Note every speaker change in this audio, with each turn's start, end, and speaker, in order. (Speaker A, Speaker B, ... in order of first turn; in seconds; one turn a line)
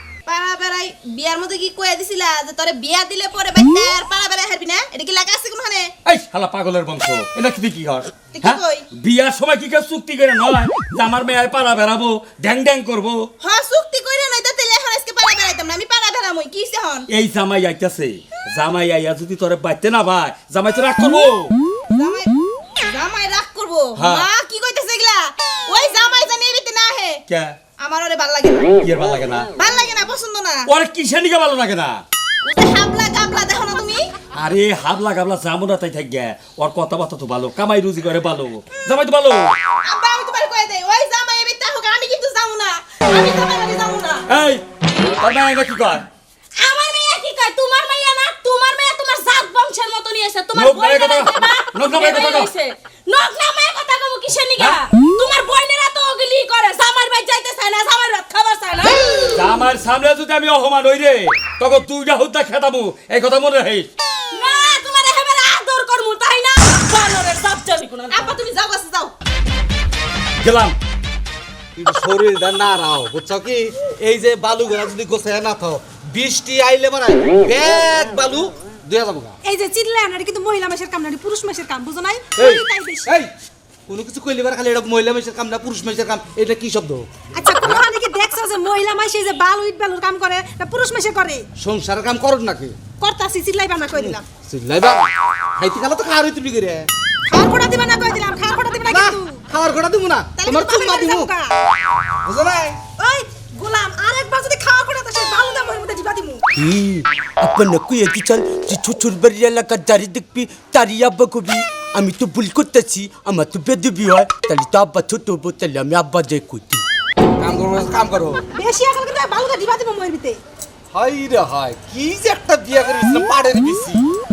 Speaker A: 0.3-5.9
Speaker B: 6.1-13.3
Speaker A: 8.4-8.8
Speaker A: 13.5-17.1
Speaker B: 17.1-21.5
Speaker A: 21.9-22.3
Speaker A: 22.9-27.1
Speaker B: 23.9-24.3
Speaker B: 27.3-27.6
Speaker A: 27.8-28.7
Speaker B: 28.8-29.5
Speaker A: 29.6-30.6
Speaker B: 30.7-32.0
Speaker A: 32.5-34.0
Speaker B: 34.4-39.5
Speaker A: 39.9-44.2
Speaker B: 44.3-44.6
Speaker C: 44.9-45.2
Speaker B: 45.2-46.1
Speaker C: 46.6-59.0
Speaker B: 50.5-52.5
Speaker B: 59.3-63.9
Speaker C: 64.3-68.5
Speaker A: 68.2-69.1
Speaker B: 70.4-70.8
Speaker D: 71.8-79.4
Speaker E: 79.5-83.1
Speaker D: 82.4-83.3
Speaker D: 83.9-87.1
Speaker E: 87.3-91.4
Speaker D: 91.6-92.8
Speaker E: 93.0-94.2
Speaker D: 94.0-96.9
Speaker E: 97.3-99.4
Speaker D: 98.9-101.3
Speaker E: 100.4-101.5
Speaker D: 102.2-102.8
Speaker E: 103.0-106.4
Speaker F: 106.5-116.8
Speaker D: 117.4-118.4
Speaker E: 118.5-120.4
Speaker D: 120.9-124.0